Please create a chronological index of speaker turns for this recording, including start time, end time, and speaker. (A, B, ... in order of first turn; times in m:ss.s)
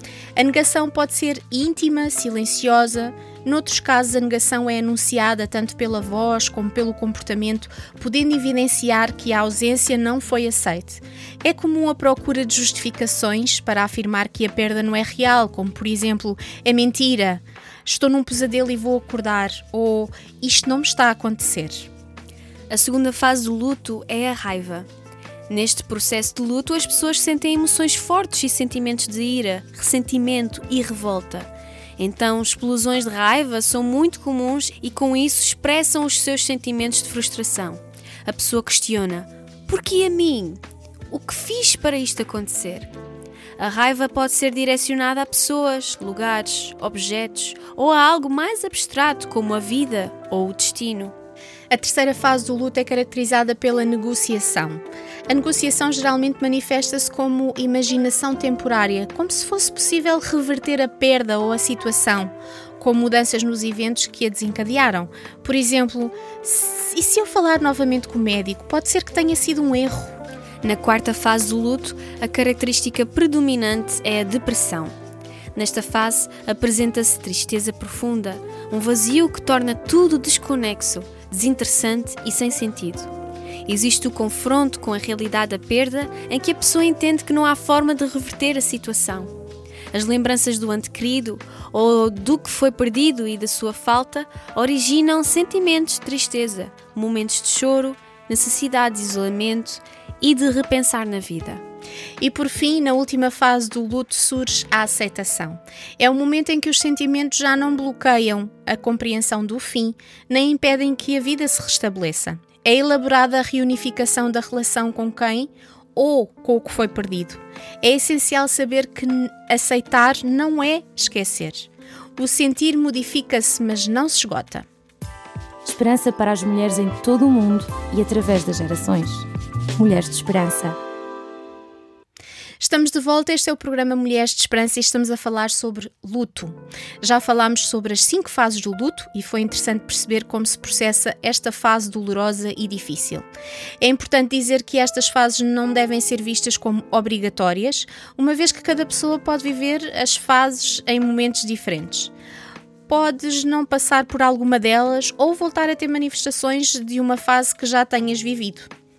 0:00.4-0:21.9 A
0:22.7-0:24.9 B
0:25.5-0:42.9 B
0:43.6-0:51.1 B
0:51.7-1:10.2 A
1:10.6-1:14.9 B
1:15.5-1:23.1 B
1:23.6-1:29.3 B
1:29.9-1:41.6 B
1:42.2-2:04.6 A
2:05.6-2:10.8 C
2:12.6-2:23.2 A
2:23.8-2:32.1 A
2:32.9-2:38.7 A